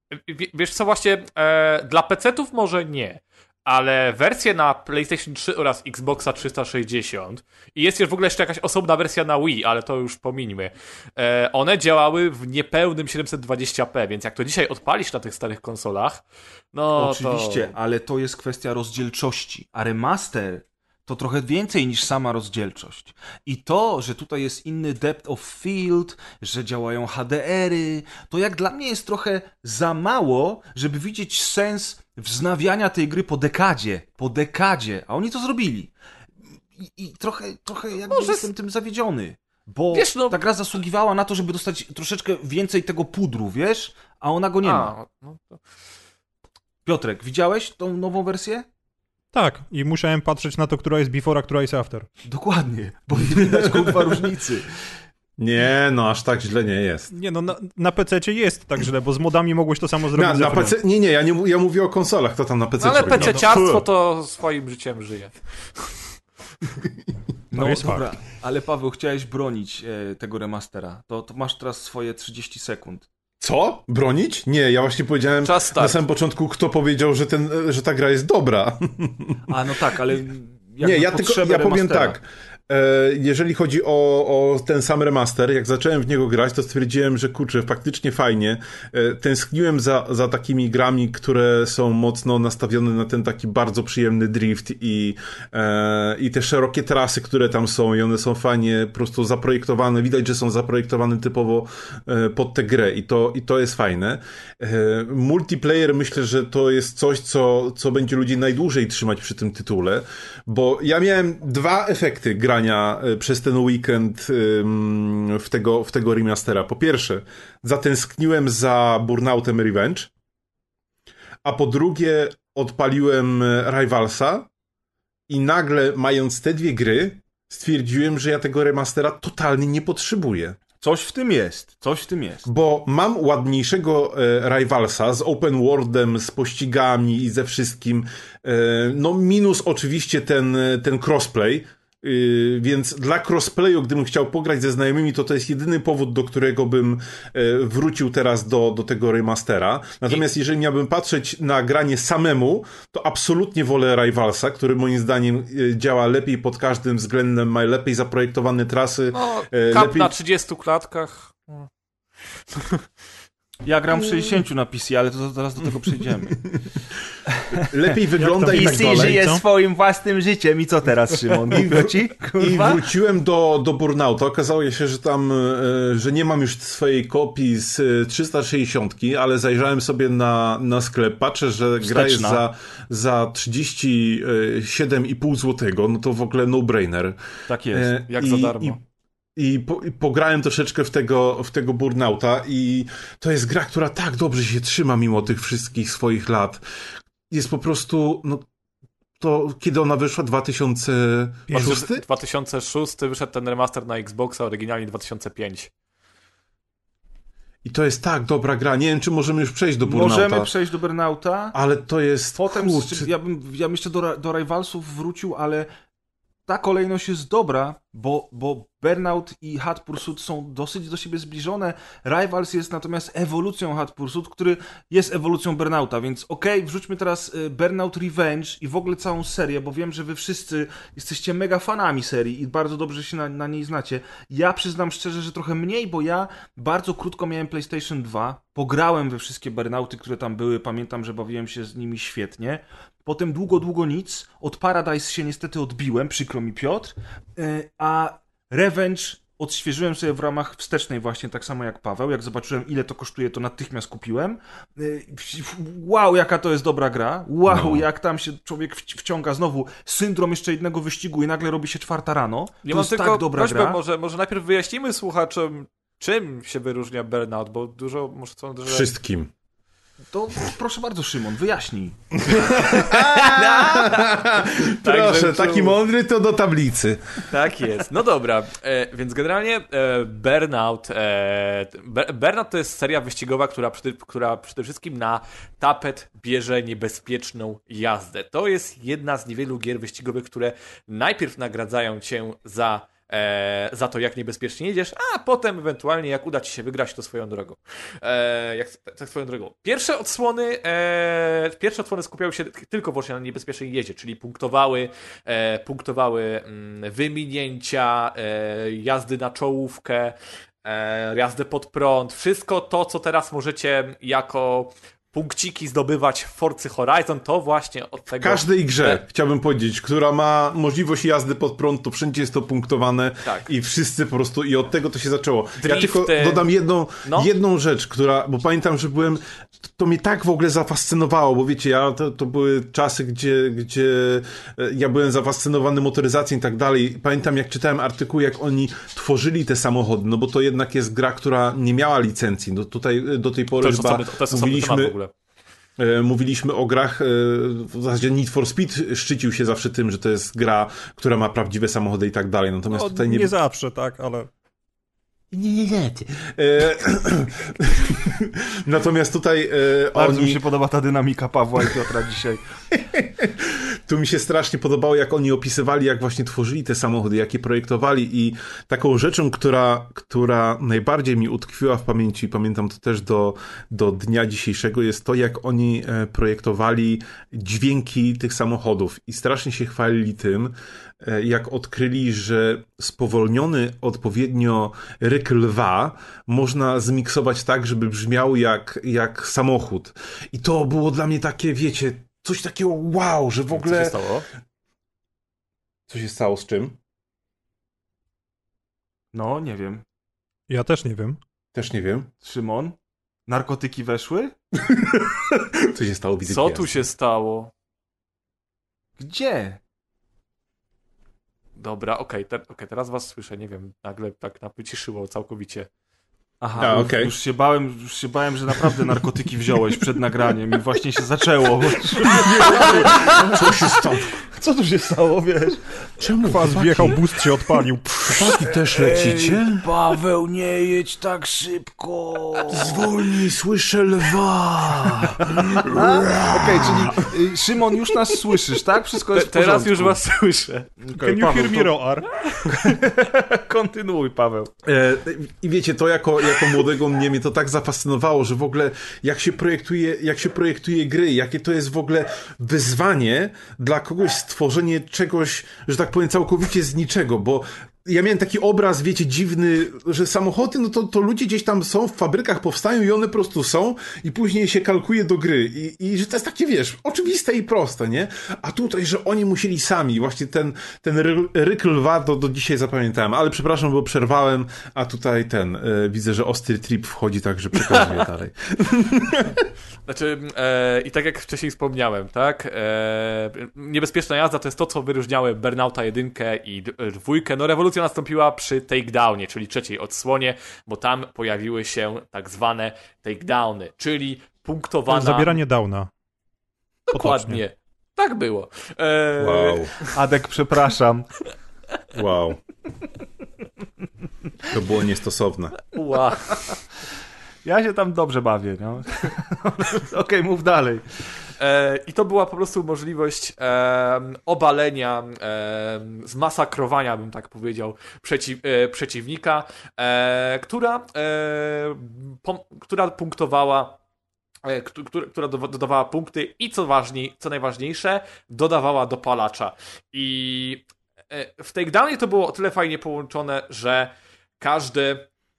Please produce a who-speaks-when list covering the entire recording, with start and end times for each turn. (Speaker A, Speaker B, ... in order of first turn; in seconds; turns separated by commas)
Speaker A: 0.1-17.7, Speaker B: 16.9-35.9, Speaker B: 36.8-44.9, Speaker A: 38.1-38.5, Speaker A: 39.9-40.4, Speaker A: 44.6-45.6, Speaker B: 46.8-48.7, Speaker C: 49.3-52.1, Speaker B: 52.2-54.7, Speaker D: 53.3-54.2, Speaker D: 55.4-57.1, Speaker C: 57.1-60.8, Speaker D: 60.1-63.8, Speaker A: 62.8-65.9, Speaker C: 63.2-63.5, Speaker B: 67.5-73.1, Speaker C: 67.5-68.0, Speaker D: 73.4-79.4, Speaker A: 75.5-76.0, Speaker B: 79.5-82.2, Speaker D: 80.8-120.1, Speaker D: 121.4-124.5, Speaker D: 125.3-130.6, Speaker B: 130.8-132.4, Speaker D: 132.4-160.1, Speaker A: 159.1-161.7, Speaker A: 162.5-162.8, Speaker B: 163.6-166.4, Speaker B: 167.4-167.6, Speaker D: 167.6-169.2, Speaker C: 168.2-169.4, Speaker B: 168.4-172.8, Speaker D: 171.5-187.2, Speaker B: 181.8-182.4, Speaker B: 187.5-187.9, Speaker D: 187.7-188.8, Speaker A: 188.1-188.8, Speaker D: 189.4-196.6, Speaker D: 197.3-198.5, Speaker D: 199.2-202.0, Speaker C: 201.5-201.8, Speaker A: 201.5-205.7, Speaker D: 207.6-210.5, Speaker B: 209.8-211.6, Speaker D: 211.5-213.1, Speaker B: 212.4-215.7, Speaker B: 216.5-263.8, Speaker D: 257.5-257.9, Speaker A: 262.6-268.9, Speaker D: 268.7-269.3, Speaker B: 270.1-272.0, Speaker D: 272.4-277.2, Speaker A: 272.5-275.8, Speaker B: 272.6-273.4, Speaker A: 277.3-319.0, Speaker D: 318.2-345.0, Speaker A: 325.6-326.5, Speaker A: 327.0-327.3, Speaker A: 343.6-345.1, Speaker D: 345.8-353.3, Speaker C: 352.7-354.3, Speaker D: 355.3-360.4, Speaker B: 359.9-362.4, Speaker D: 362.7-394.0, Speaker A: 393.5-394.3, Speaker D: 395.9-396.8, Speaker B: 399.1-399.8, Speaker C: 400.5-401.2, Speaker D: 401.5-402.1, Speaker B: 402.2-402.8, Speaker B: 403.3-404.3, Speaker D: 404.6-406.8, Speaker A: 406.3-407.5, Speaker B: 409.0-409.6, Speaker A: 411.6-415.7, Speaker B: 416.4-423.6, Speaker D: 416.6-417.1, Speaker D: 422.0-424.1, Speaker B: 424.3-425.6, Speaker D: 426.0-427.0, Speaker C: 426.2-428.1, Speaker D: 428.0-429.6, Speaker B: 428.2-432.8, Speaker D: 432.5-437.1, Speaker B: 435.3-440.0, Speaker A: 439.1-440.7, Speaker B: 440.8-441.8, Speaker C: 440.9-442.1, Speaker B: 442.4-444.5, Speaker D: 444.6-479.5, Speaker A: 477.7-478.0, Speaker A: 479.9-495.4, Speaker C: 494.9-495.9, Speaker A: 496.9-499.9, Speaker C: 496.9-497.4, Speaker D: 499.2-499.7, Speaker B: 499.9-501.1, Speaker D: 501.9-502.4, Speaker D: 504.5-505.6, Speaker A: 505.7-506.6, Speaker B: 507.4-510.8, Speaker A: 511.4-523.8, Speaker A: 524.5-535.1